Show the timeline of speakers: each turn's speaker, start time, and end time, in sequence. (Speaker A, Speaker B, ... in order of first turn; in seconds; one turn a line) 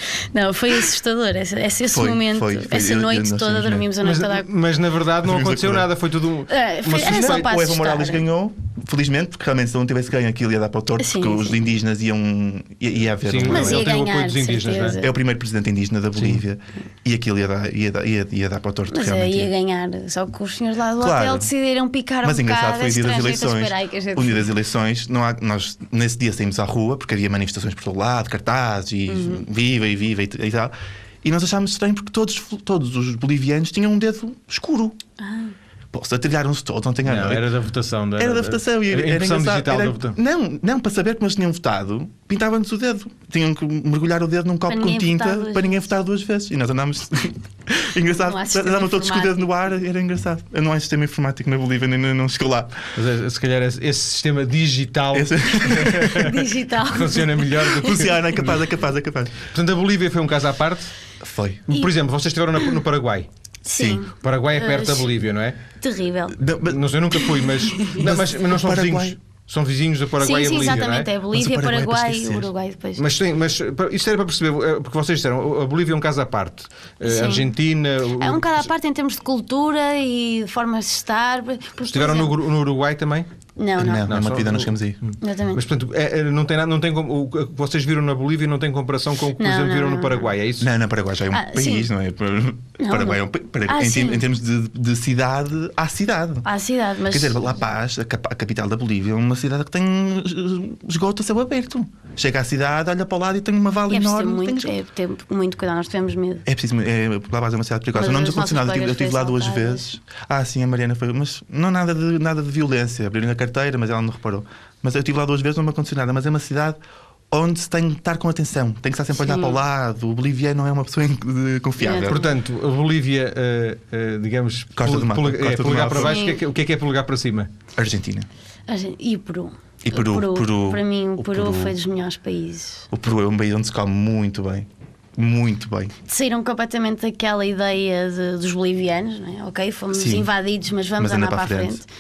Speaker A: 0.3-4.5
Speaker B: 1.9-3.9
Speaker C: 4.0-7.4
Speaker B: 5.2-5.9
Speaker A: 6.5-8.3
Speaker B: 6.9-13.9
Speaker A: 11.0-11.6
Speaker C: 13.2-15.0
Speaker A: 13.4-15.1
Speaker B: 15.0-19.5
Speaker C: 16.2-16.4
Speaker A: 18.9-24.5
Speaker B: 21.0-21.5
Speaker B: 22.2-35.0
Speaker A: 29.1-29.4
Speaker A: 35.2-35.5
Speaker B: 35.9-37.5
Speaker C: 37.0-40.2
Speaker B: 38.2-52.9
Speaker A: 44.7-45.9
Speaker A: 48.2-49.5
Speaker C: 53.0-58.5
Speaker B: 55.1-56.3
Speaker A: 56.1-58.0
Speaker B: 57.7-59.4
Speaker C: 59.5-60.9
Speaker B: 61.2-61.7
Speaker C: 61.7-63.3
Speaker A: 63.6-65.1
Speaker B: 63.7-64.0
Speaker C: 64.2-65.6
Speaker A: 65.8-66.4
Speaker B: 66.3-66.8
Speaker C: 66.7-71.1
Speaker A: 67.7-68.0
Speaker B: 67.9-69.2
Speaker A: 70.2-73.0
Speaker B: 71.3-72.5
Speaker C: 73.0-78.6
Speaker A: 77.0-77.5
Speaker A: 78.2-82.3
Speaker C: 81.9-83.3
Speaker A: 83.6-84.1
Speaker B: 83.8-85.0
Speaker C: 84.0-90.7
Speaker A: 85.2-85.6
Speaker A: 89.4-90.3
Speaker B: 90.6-96.5
Speaker A: 91.3-91.9
Speaker A: 92.8-94.2
Speaker A: 96.5-97.6
Speaker B: 97.1-104.8
Speaker A: 103.9-106.5
Speaker B: 106.5-116.8
Speaker A: 108.0-109.9
Speaker B: 117.3-122.2
Speaker A: 119.2-119.6
Speaker A: 121.8-122.3
Speaker C: 122.1-127.5
Speaker B: 124.8-126.2
Speaker A: 125.9-126.4
Speaker B: 127.8-128.3
Speaker A: 128.7-132.9
Speaker B: 129.8-131.8
Speaker B: 132.9-135.9
Speaker A: 136.1-141.9
Speaker B: 139.9-140.3
Speaker B: 141.0-141.8